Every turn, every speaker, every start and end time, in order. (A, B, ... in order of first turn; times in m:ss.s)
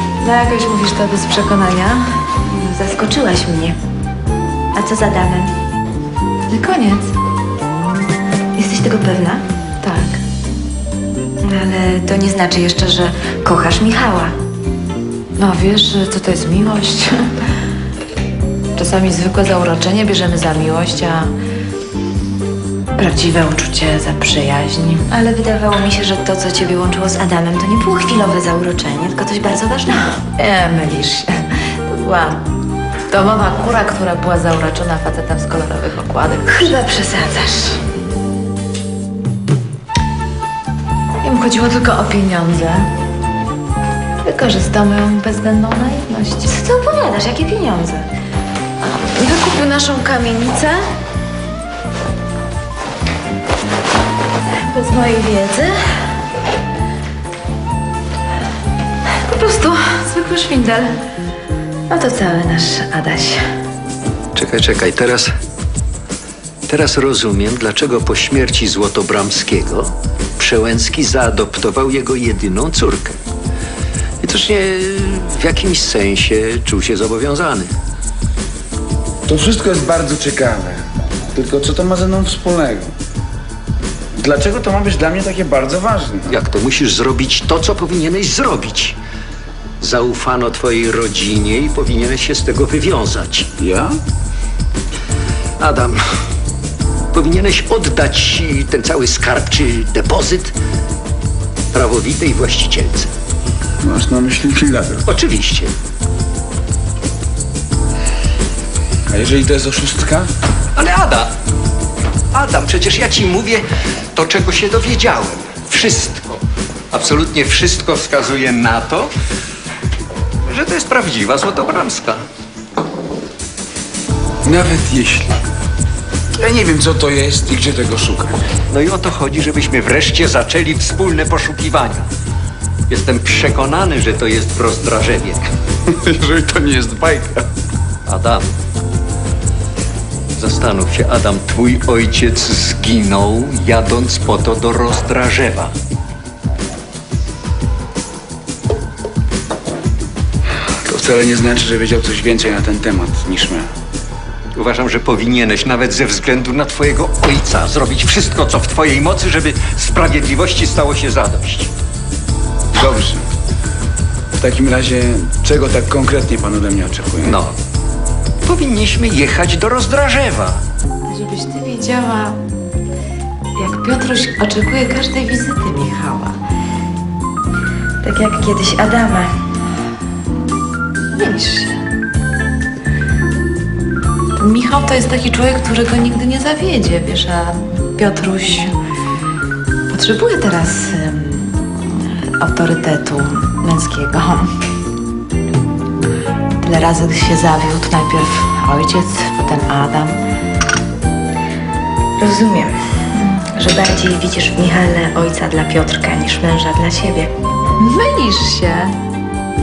0:00.2-0:02.2 A
0:02.5-0:03.8 B
0:04.7-0:05.5 B
0:06.5-0:07.1 A
0:08.6-0:09.4 B
0:09.8-0:10.2 A
0:11.4-0:14.3 B
0:15.4-0:17.3 A
0:18.8-0:21.3 A
0:23.0-0:25.1 A
0:25.1-0:30.0 B
0:30.3-0:32.4 A
0:33.1-0:37.8 A
0:36.5-0:37.0 B
0:41.2-0:42.9 A
0:44.2-0:46.6 A
0:46.5-0:47.9 B
0:47.4-0:48.0 A
0:48.8-0:50.9 A
0:54.6-0:55.8 A
0:59.2-1:01.0 A
1:01.9-1:03.4 A
1:04.3-1:05.3 C
1:06.7-1:13.2 C
1:14.2-1:17.7 C
1:19.3-1:20.8 D
1:21.3-1:22.9 D
1:24.2-1:26.3 D
1:26.3-1:29.0 C
1:29.8-1:33.5 C
1:33.6-1:34.0 D
1:35.6-1:36.0 C
1:37.1-1:40.6 C
1:41.7-1:43.1 C
1:43.8-1:45.1 D
1:45.1-1:45.7 C
1:49.1-1:50.3 D
1:50.8-1:51.3 C
1:52.3-1:56.4 C
1:56.9-1:59.1 C
2:00.5-2:02.2 C
2:04.4-2:05.3 D
2:06.4-2:08.3 D
2:08.7-2:12.1 C
2:12.9-2:15.4 C
2:15.9-2:17.5 D
2:18.1-2:18.5 C
2:20.4-2:25.7 C
2:30.8-2:33.7 D
2:34.5-2:41.7 C
2:42.7-2:43.2 D
2:44.4-2:47.4 D
2:47.3-2:47.5 C
2:48.4-2:50.6 C
2:51.1-2:52.4 A
2:53.6-2:56.4 A
2:58.0-2:59.4 B
3:01.1-3:01.8 A
3:04.4-3:08.7 A
3:09.9-3:14.5 A
3:16.6-3:20.2 A
3:22.2-3:22.8 B
3:23.1-3:23.5 A
3:23.5-3:27.3 B
3:27.8-3:29.0 A